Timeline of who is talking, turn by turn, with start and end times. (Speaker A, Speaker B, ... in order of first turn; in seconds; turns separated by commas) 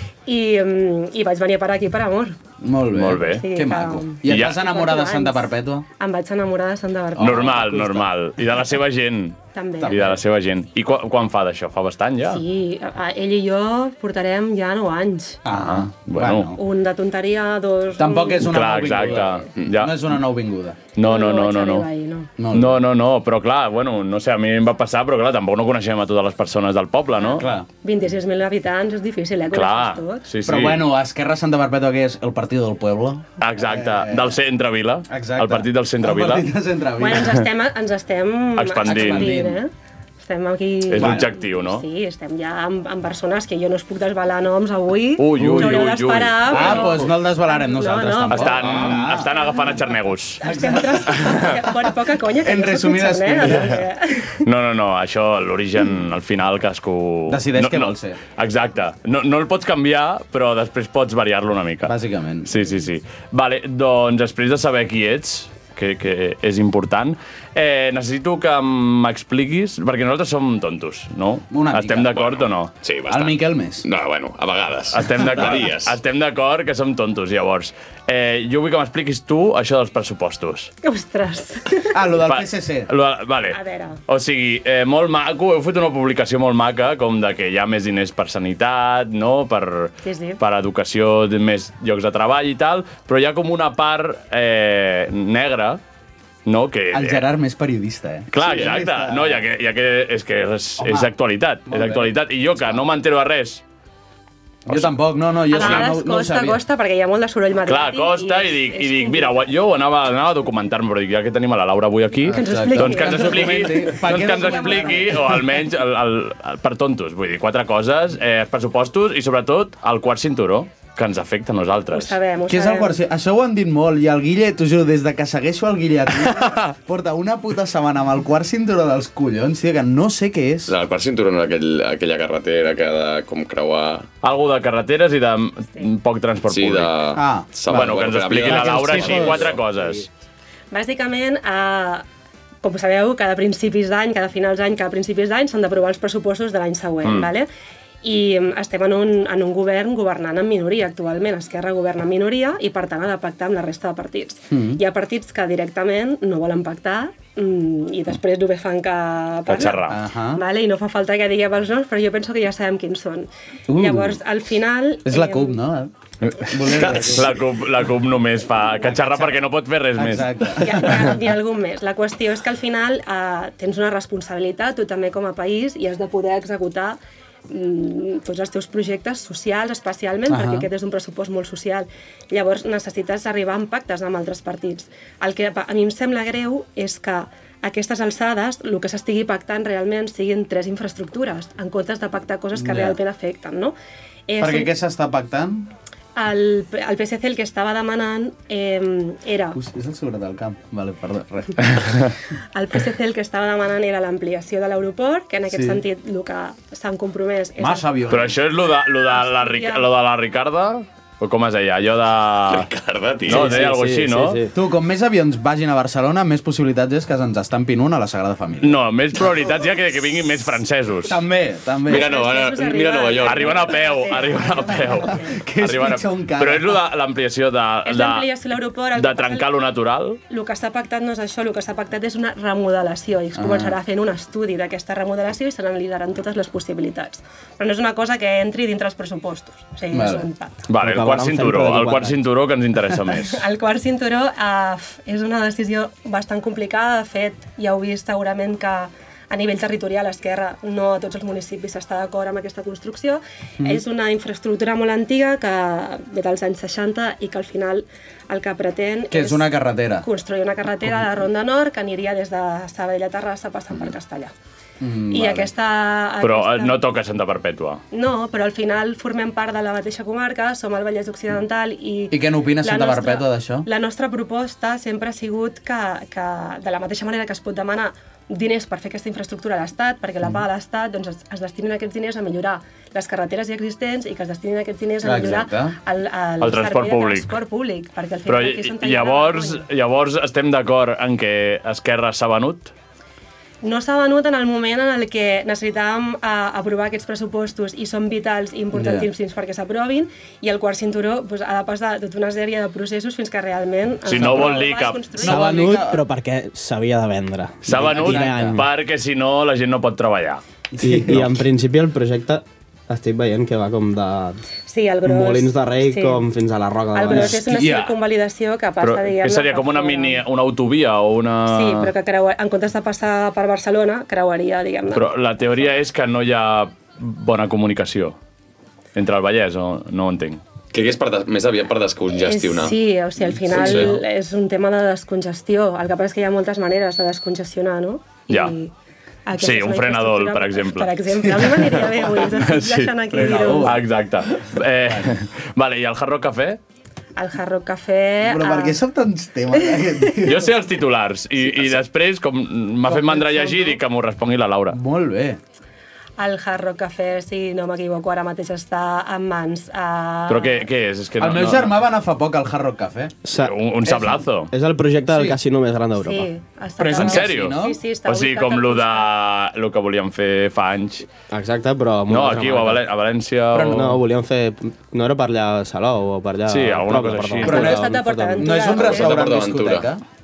Speaker A: 0.3-2.4, Speaker B: 2.6-5.9, Speaker C: 3.0-3.4, Speaker A: 3.2-7.6, Speaker C: 4.2-4.6, Speaker B: 7.2-8.1, Speaker C: 7.2-12.4, Speaker A: 9.5-9.9, Speaker B: 9.8-10.2, Speaker A: 12.3-15.4, Speaker B: 15.4-16.6, Speaker C: 15.5-16.5, Speaker A: 16.6-18.6, Speaker B: 18.0-20.8, Speaker C: 18.4-20.0, Speaker C: 20.9-21.9, Speaker A: 21.0-22.3, Speaker B: 22.4-22.8, Speaker C: 22.5-27.5, Speaker A: 27.2-30.2, Speaker B: 27.4-27.7, Speaker C: 29.5-30.9, Speaker B: 30.4-34.4, Speaker C: 33.4-36.5, Speaker B: 35.1-37.4, Speaker A: 37.0-49.7, Speaker C: 38.6-39.3, Speaker B: 38.9-39.6, Speaker C: 40.9-41.8, Speaker B: 41.0-41.3, Speaker C: 45.2-47.1, Speaker B: 45.4-45.9, Speaker B: 46.5-49.3, Speaker C: 48.2-50.4, Speaker B: 50.4-53.8, Speaker A: 50.4-54.4, Speaker C: 53.5-53.8, Speaker C: 54.4-72.8, Speaker B: 57.3-58.2, Speaker B: 61.9-62.5, Speaker B: 71.5-72.2, Speaker D: 72.2-76.0, Speaker B: 73.1-73.8, Speaker C: 74.9-80.7, Speaker B: 75.3-75.6, Speaker A: 80.8-81.9, Speaker B: 81.9-82.9, Speaker C: 82.2-95.8, Speaker A: 83.5-84.0, Speaker A: 90.0-90.4, Speaker C: 96.5-97.2, Speaker B: 96.9-99.4, Speaker C: 98.3-103.6, Speaker B: 100.8-101.1, Speaker B: 101.7-102.8, Speaker C: 104.7-104.9, Speaker B: 104.7-106.6, Speaker A: 105.5-109.5, Speaker C: 105.5-105.8, Speaker C: 107.7-122.2, Speaker B: 112.3-115.4, Speaker A: 112.3-115.2, Speaker A: 121.9-123.0, Speaker B: 122.5-130.7, Speaker D: 130.7-134.1, Speaker C: 134.2-137.0, Speaker D: 136.5-139.6, Speaker B: 137.2-140.0, Speaker C: 137.7-140.1, Speaker A: 140.7-142.1, Speaker A: 142.6-147.5, Speaker C: 147.0-147.3, Speaker A: 148.0-165.6, Speaker B: 154.5-154.8, Speaker C: 159.5-160.0, Speaker B: 159.9-160.4, Speaker B: 163.7-164.2, Speaker B: 165.0-167.4, Speaker C: 166.5-170.6, Speaker D: 166.7-167.2, Speaker B: 168.8-169.4, Speaker B: 170.0-171.2, Speaker A: 170.6-193.8, Speaker B: 180.3-180.7, Speaker B: 192.5-193.0, Speaker A: 194.3-194.7, Speaker B: 194.4-195.7, Speaker A: 196.2-199.6, Speaker B: 199.6-201.8, Speaker A: 202.5-207.9, Speaker B: 205.5-205.8, Speaker B: 207.6-208.4, Speaker C: 208.1-212.7, Speaker A: 209.1-209.9, Speaker D: 212.5-213.6, Speaker C: 213.3-214.4, Speaker E: 213.3-214.5, Speaker B: 214.5-218.8, Speaker C: 218.6-221.2, Speaker B: 221.1-222.1, Speaker D: 221.8-223.8, Speaker A: 221.9-225.3, Speaker C: 223.2-228.3, Speaker B: 225.4-226.8, Speaker A: 227.8-229.5, Speaker C: 228.9-230.2, Speaker A: 230.3-240.6, Speaker B: 233.3-233.8, Speaker B: 239.9-240.3, Speaker C: 240.7-243.4, Speaker E: 240.8-242.2, Speaker A: 243.3-264.3, Speaker B: 259.1-260.1, Speaker B: 264.8-265.5, Speaker A: 265.1-266.8, Speaker C: 266.2-267.8, Speaker A: 267.9-289.6, Speaker B: 272.1-273.7, Speaker B: 285.0-285.8, Speaker C: 286.4-287.3, Speaker C: 288.3-292.7, Speaker A: 293.6-305.6, Speaker B: 298.7-299.1, Speaker C: 304.1-305.1, Speaker B: 304.1-304.6, Speaker B: 305.2-306.1, Speaker E: 305.2-308.6, Speaker C: 307.6-310.4, Speaker B: 307.7-308.6, Speaker B: 310.7-311.4, Speaker E: 310.8-314.4, Speaker A: 314.7-316.2, Speaker E: 315.1-317.4, Speaker A: 316.9-320.2, Speaker C: 317.4-317.9, Speaker C: 318.8-321.9, Speaker A: 321.5-325.1, Speaker C: 324.9-328.2, Speaker C: 329.0-330.4, Speaker D: 330.7-332.8, Speaker A: 332.2-338.7, Speaker B: 333.4-333.9, Speaker D: 333.5-333.9, Speaker C: 338.3-338.5, Speaker A: 339.3-343.7, Speaker C: 339.4-346.6, Speaker B: 341.3-342.0, Speaker B: 343.1-343.9, Speaker B: 344.9-345.1, Speaker A: 347.2-348.8, Speaker B: 348.2-350.5, Speaker A: 349.6-350.1, Speaker C: 350.2-354.8, Speaker B: 351.5-351.7, Speaker B: 352.9-353.8, Speaker B: 354.7-355.4, Speaker A: 356.2-360.6, Speaker C: 360.3-361.8, Speaker B: 361.2-363.1, Speaker E: 363.3-363.5, Speaker C: 363.4-364.5, Speaker B: 363.9-364.2, Speaker E: 364.5-366.3, Speaker B: 365.1-365.4, Speaker A: 366.0-369.1, Speaker B: 366.8-367.8, Speaker C: 366.9-371.1, Speaker E: 371.3-372.8, Speaker C: 372.1-374.0, Speaker B: 373.5-374.0, Speaker E: 373.6-378.6, Speaker C: 376.5-377.8, Speaker B: 377.4-380.0, Speaker A: 377.4-379.2, Speaker D: 378.6-379.9